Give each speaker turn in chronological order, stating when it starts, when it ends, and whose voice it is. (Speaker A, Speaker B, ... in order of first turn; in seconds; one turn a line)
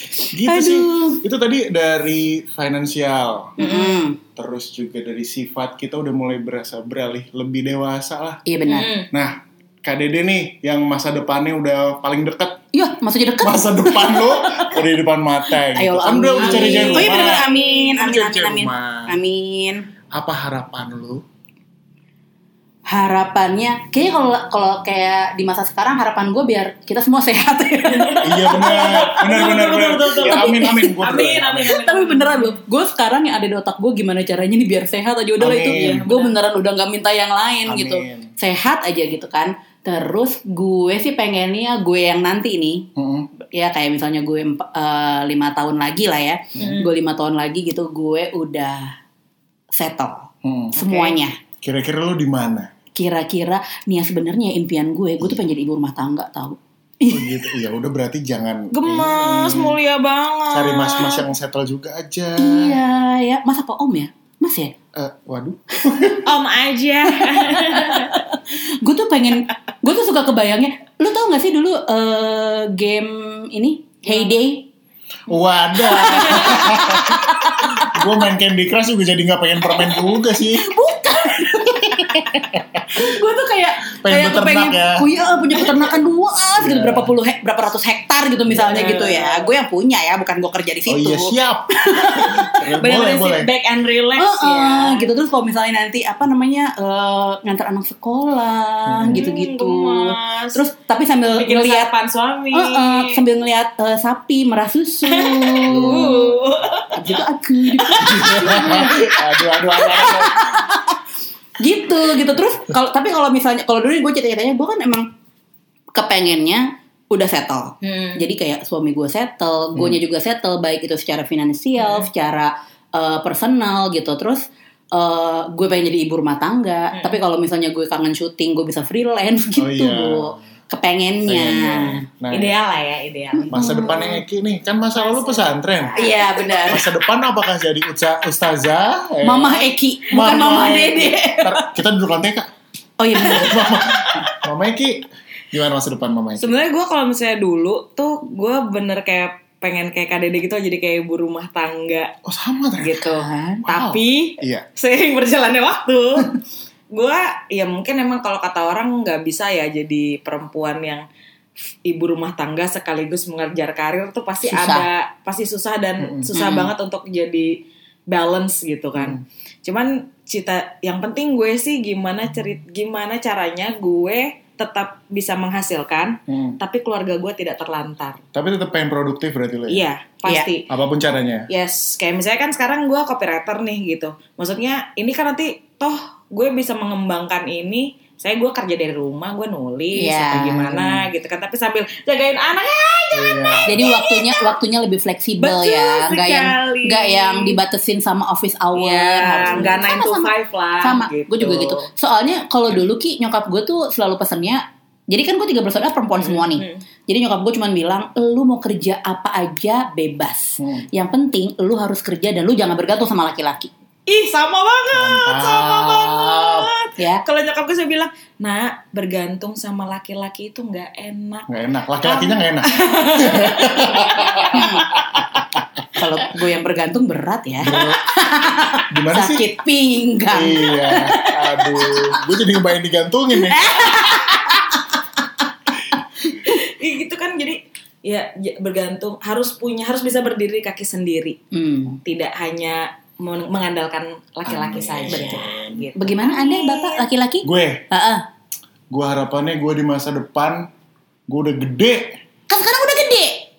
Speaker A: 0.2-3.5
Speaker B: 0.4-1.2
Speaker C: 3.6-4.0
Speaker B: 3.6-4.2
Speaker A: 4.3-8.4
Speaker B: 8.5-9.0
Speaker C: 8.7-9.1
Speaker A: 9.1-12.6
Speaker B: 12.7-14.5
Speaker A: 13.4-19.1
Speaker B: 15.7-19.9
Speaker C: 16.4-17.6
Speaker A: 20.1-21.2
Speaker B: 22.9-29.4
Speaker C: 27.9-32.6
Speaker A: 28.2-31.8
Speaker B: 30.1-31.0
Speaker B: 31.6-42.9
Speaker A: 35.4-36.1
Speaker C: 35.6-36.4
Speaker A: 37.7-38.3
Speaker A: 43.0-43.3
Speaker B: 43.5-48.9
Speaker C: 46.6-46.9
Speaker B: 49.7-51.4
Speaker A: 50.4-50.8
Speaker C: 50.8-51.2
Speaker A: 51.6-52.7
Speaker B: 53.0-57.5
Speaker A: 57.1-59.8
Speaker C: 58.7-61.3
Speaker A: 60.5-62.8
Speaker B: 62.4-64.7
Speaker A: 65.0-66.3
Speaker C: 66.2-68.2
Speaker B: 67.3-74.7
Speaker C: 74.1-74.3
Speaker A: 75.3-80.8
Speaker B: 75.8-78.0
Speaker C: 76.0-76.6
Speaker B: 79.7-82.3
Speaker A: 81.5-83.1
Speaker B: 82.9-92.5
Speaker A: 84.0-85.1
Speaker A: 86.6-87.1
Speaker A: 88.5-89.1
Speaker C: 88.7-89.5
Speaker A: 90.9-93.5
Speaker C: 92.6-95.1
Speaker B: 94.2-101.9
Speaker A: 98.9-99.3
Speaker C: 99.0-100.6
Speaker C: 101.4-103.2
Speaker B: 102.5-106.2
Speaker C: 105.0-107.0
Speaker A: 105.7-106.4
Speaker B: 106.9-110.9
Speaker C: 107.8-108.5
Speaker A: 108.0-110.7
Speaker B: 111.6-115.1
Speaker B: 116.0-132.1
Speaker C: 117.8-118.2
Speaker A: 119.8-120.0
Speaker C: 121.8-122.1
Speaker C: 126.9-127.2
Speaker A: 129.6-130.4
Speaker A: 131.3-132.5
Speaker C: 132.3-134.2
Speaker B: 133.4-134.2
Speaker A: 133.5-136.0
Speaker C: 134.9-136.5
Speaker B: 136.0-136.9
Speaker A: 136.7-142.5
Speaker B: 139.2-141.6
Speaker B: 143.0-143.8
Speaker A: 143.2-146.5
Speaker C: 143.5-144.3
Speaker C: 146.4-152.1
Speaker A: 152.2-154.7
Speaker C: 152.8-156.4
Speaker C: 156.9-161.0
Speaker C: 161.9-167.5
Speaker B: 164.4-164.9
Speaker A: 166.0-166.3
Speaker B: 166.3-166.7
Speaker C: 168.1-178.2
Speaker A: 176.3-176.6
Speaker A: 178.3-179.8
Speaker C: 179.7-180.7
Speaker A: 180.7-181.5
Speaker C: 181.5-194.5
Speaker B: 189.9-190.8
Speaker A: 193.1-193.8
Speaker B: 193.7-213.7
Speaker C: 195.4-197.6
Speaker C: 198.8-201.9
Speaker C: 206.1-206.8
Speaker C: 214.1-221.5
Speaker A: 214.9-216.7
Speaker A: 221.5-225.7
Speaker C: 222.0-224.6
Speaker B: 224.5-224.9
Speaker B: 226.0-232.0
Speaker A: 227.6-228.0
Speaker A: 228.9-229.5
Speaker A: 230.3-234.1
Speaker B: 233.5-234.7
Speaker C: 236.4-241.4
Speaker B: 241.5-242.0
Speaker C: 242.1-247.1
Speaker A: 244.5-245.9
Speaker B: 245.1-245.4
Speaker B: 245.9-248.2
Speaker A: 247.4-247.9
Speaker A: 248.9-250.7
Speaker A: 251.3-252.2
Speaker B: 252.5-253.4